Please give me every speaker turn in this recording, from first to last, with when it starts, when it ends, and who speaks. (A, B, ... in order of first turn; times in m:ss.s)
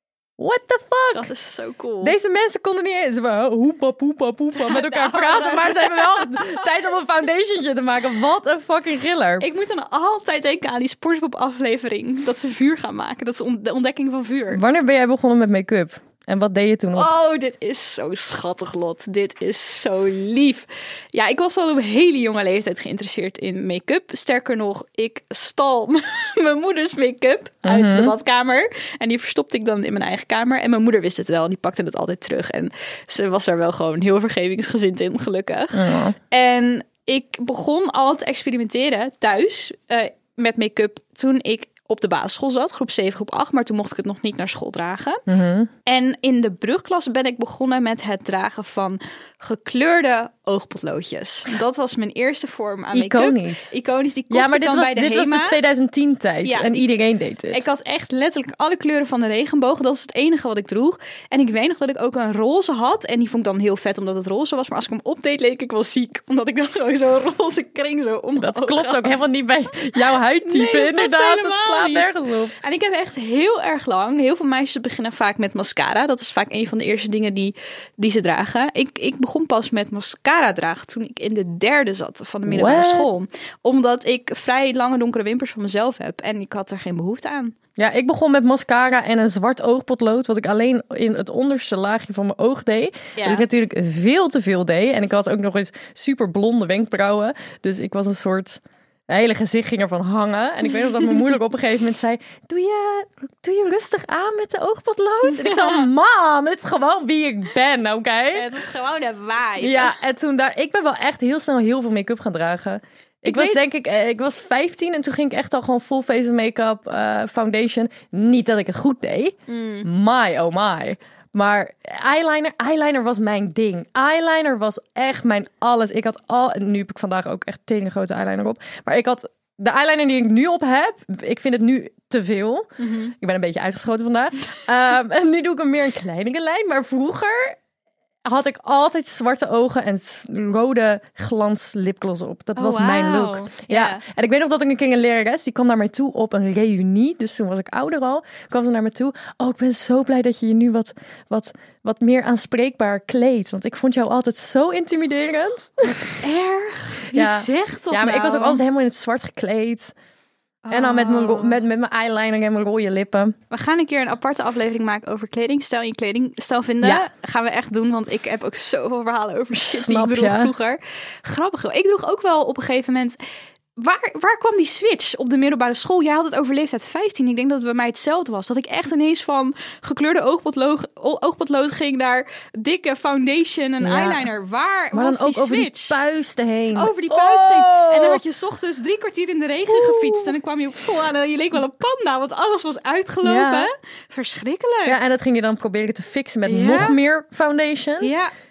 0:00.4-0:01.3 A
0:01.1-0:02.2 B
0:02.0-0:09.4 A
0:04.6-0:06.7 B
0:09.4-0:14.6 B
0:14.5-0:17.1 A
0:16.9-0:45.2 B
0:27.6-0:28.1 A
0:35.7-0:36.2 A
0:45.3-0:45.7 A
0:45.8-0:55.6 B
0:52.9-0:53.7 A
0:54.3-0:57.6 A
0:56.4-0:56.9 B
0:57.5-1:09.2 B
1:08.4-1:12.5 A
1:10.0-1:27.6 B
1:22.4-1:23.1 A
1:27.8-1:48.5 A
1:33.2-1:33.5 B
1:45.3-1:45.8 B
1:48.3-1:49.9 B
1:49.6-2:17.6 A
1:53.2-1:53.6 B
1:59.5-1:59.9 B
2:12.8-2:13.1 B
2:18.2-2:36.0 A
2:22.6-2:24.0 B
2:35.8-2:38.6 B
2:37.1-2:39.9 A
2:40.6-2:41.6 B
2:40.7-2:43.4 A
2:43.5-2:53.2 B
2:49.5-2:50.5 A
2:53.8-3:06.0 B
3:03.8-3:04.3 A
3:04.9-3:08.2 A
3:06.7-3:15.0 B
3:09.7-3:10.3 A
3:13.2-3:13.7 A
3:14.8-3:18.1 A
3:16.4-3:17.0 B
3:18.0-3:18.3 B